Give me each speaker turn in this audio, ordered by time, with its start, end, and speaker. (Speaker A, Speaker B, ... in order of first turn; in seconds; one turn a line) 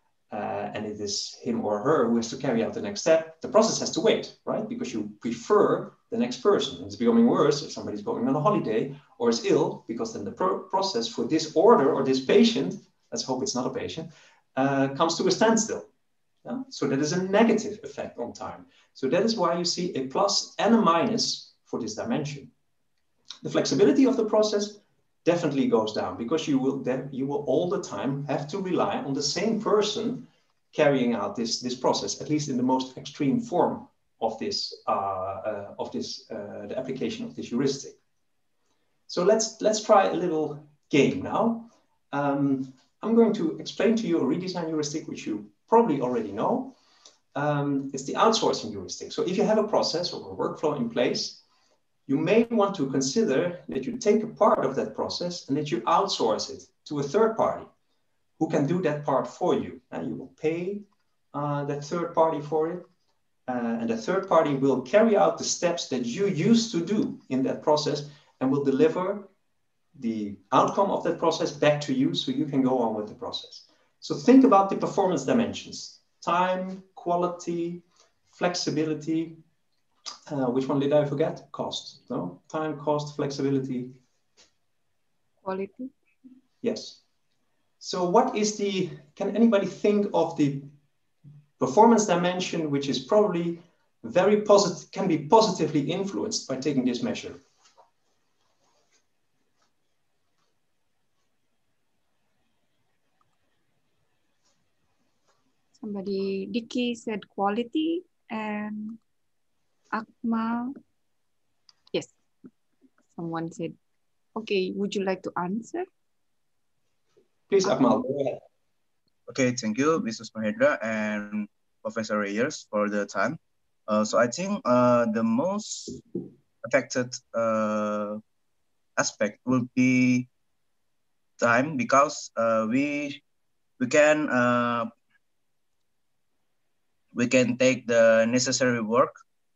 Speaker A: 0.3-15.9
Speaker A: 16.4-22.5
Speaker A: 23.4-38.0
Speaker A: 39.1-46.8
Speaker A: 47.3-51.4
Speaker A: 52.1-57.7
Speaker A: 58.4-62.9
Speaker A: 63.5-69.3
Speaker A: 70.0-79.4
Speaker A: 80.3-84.0
Speaker B: 85.4-85.9
Speaker A: 86.6-87.0
Speaker A: 87.8-90.7
Speaker A: 91.6-97.4
Speaker B: 105.8-109.0
Speaker B: 109.9-110.7
Speaker B: 113.1-113.8
Speaker B: 114.4-115.9
Speaker A: 117.5-118.4
Speaker C: 119.3-126.0
Speaker C: 126.6-128.2
Speaker C: 129.0-130.3
Speaker C: 131.4-133.2
Speaker C: 133.8-134.9
Speaker C: 137.1-139.2